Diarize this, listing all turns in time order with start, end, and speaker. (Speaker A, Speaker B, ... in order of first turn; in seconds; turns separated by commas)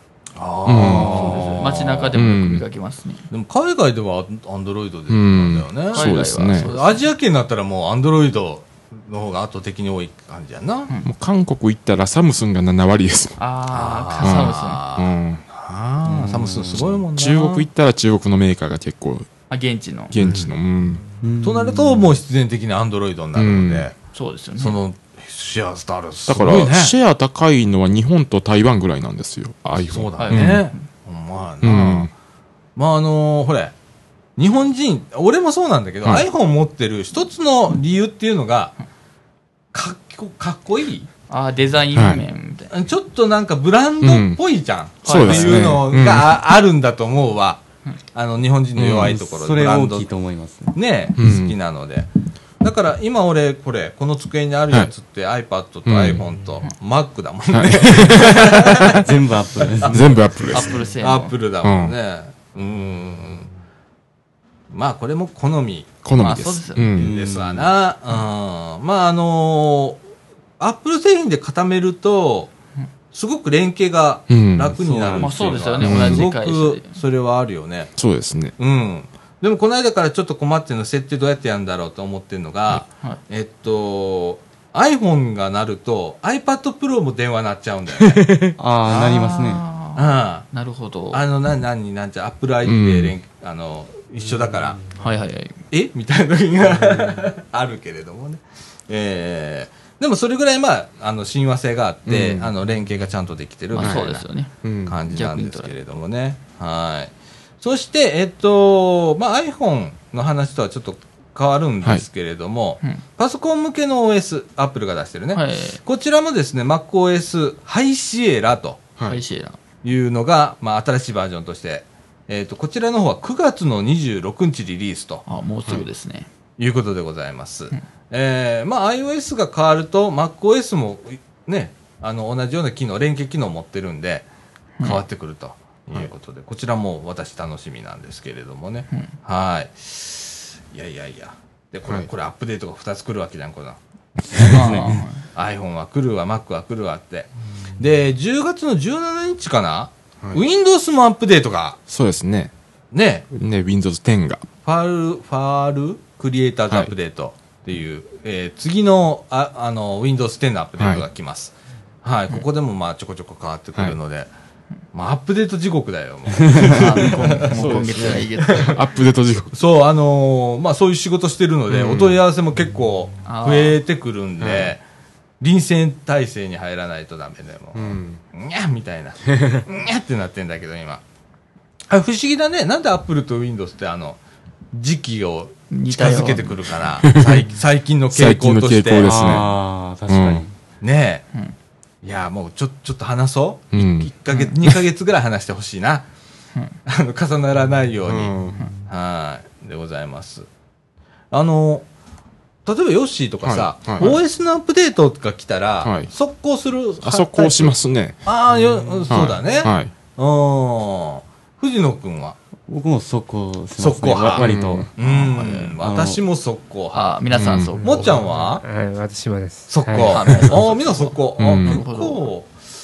Speaker A: 0.4-2.1, Speaker B: 0.7-2.6, Speaker C: 0.8-3.3, Speaker A: 3.3-10.9, Speaker B: 5.1-6.7, Speaker C: 5.9-7.0, Speaker B: 11.0-13.4, Speaker C: 13.4-14.8, Speaker A: 13.7-17.7, Speaker B: 14.2-15.4, Speaker D: 16.1-16.9, Speaker B: 17.1-19.3, Speaker C: 19.5-20.1, Speaker B: 20.1-21.0, Speaker A: 20.2-20.5, Speaker D: 21.2-22.1, Speaker A: 21.4-23.9, Speaker B: 23.4-23.9, Speaker C: 24.1-24.8, Speaker A: 24.6-26.9, Speaker B: 26.3-30.7, Speaker A: 29.8-32.1, Speaker C: 30.2-30.7, Speaker B: 31.6-32.1, Speaker A: 32.8-33.7, Speaker A: 34.4-38.7, Speaker A: 39.7-41.1, Speaker C: 41.3-42.8, Speaker B: 41.9-42.2, Speaker A: 42.7-47.6, Speaker B: 44.0-44.4, Speaker B: 45.0-46.3, Speaker C: 45.0-45.8, Speaker A: 48.1-50.1, Speaker B: 48.8-49.2, Speaker D: 48.9-50.8, Speaker A: 50.7-52.1, Speaker B: 51.2-51.6, Speaker A: 52.6-59.0, Speaker B: 55.9-56.2, Speaker B: 57.5-59.0, Speaker D: 58.8-60.3, Speaker A: 59.6-63.5, Speaker B: 59.9-60.8, Speaker C: 60.5-61.3, Speaker B: 61.6-62.0, Speaker A: 64.7-65.9, Speaker B: 66.0-67.1, Speaker C: 66.2-66.9, Speaker A: 66.8-70.0, Speaker D: 67.0-67.7, Speaker A: 70.6-72.5, Speaker A: 73.1-77.9, Speaker B: 74.3-74.8, Speaker D: 74.8-75.8, Speaker C: 75.2-77.0, Speaker B: 75.8-76.3, Speaker B: 78.0-78.5, Speaker A: 78.6-88.2, Speaker B: 88.0-88.5, Speaker D: 88.6-89.6, Speaker C: 88.9-91.2, Speaker A: 90.0-90.5, Speaker A: 91.1-94.9, Speaker B: 92.6-93.2, Speaker C: 95.0-95.6, Speaker A: 95.7-104.3, Speaker B: 102.1-102.5, Speaker C: 103.7-104.5, Speaker B: 104.6-105.0, Speaker A: 104.9-118.8, Speaker C: 105.1-105.7, Speaker C: 115.3-115.8, Speaker C: 119.1-119.6, Speaker A: 119.8-125.2, Speaker C: 125.3-126.3, Speaker A: 126.6-134.3, Speaker A: 134.8-143.8, Speaker D: 144.3-145.0, Speaker A: 144.3-144.8, Speaker C: 144.3-145.2, Speaker A: 145.3-151.8, Speaker B: 151.9-152.5, Speaker A: 152.9-153.3, Speaker B: 153.3-154.5, Speaker A: 154.6-164.3, Speaker B: 160.8-161.1, Speaker A: 164.9-168.7, Speaker D: 166.4-166.7, Speaker C: 166.6-168.8, Speaker B: 167.5-169.6, Speaker A: 169.5-174.8, Speaker B: 171.7-172.2, Speaker C: 173.2-173.8, Speaker B: 174.4-174.7, Speaker A: 175.4-181.0, Speaker B: 177.7-178.2, Speaker B: 179.4-179.6, Speaker A: 181.9-184.2, Speaker A: 184.7-189.4, Speaker C: 185.7-186.8, Speaker B: 187.0-187.4, Speaker B: 188.1-189.5, Speaker D: 189.0-190.5, Speaker B: 190.1-190.4, Speaker A: 190.8-191.2, Speaker A: 192.0-196.1, Speaker B: 193.7-194.8, Speaker A: 196.9-200.5, Speaker B: 198.1-198.6, Speaker A: 201.3-201.9, Speaker A: 202.7-212.4, Speaker B: 203.4-204.2, Speaker B: 205.8-206.1, Speaker B: 207.0-208.2, Speaker B: 209.1-209.9, Speaker D: 212.7-216.2, Speaker A: 213.8-217.2, Speaker B: 214.2-214.9, Speaker C: 215.0-215.7, Speaker C: 216.9-218.4, Speaker B: 217.3-217.8, Speaker A: 217.8-218.6, Speaker E: 217.8-220.5, Speaker A: 219.7-222.6, Speaker C: 220.1-222.2, Speaker B: 221.4-221.8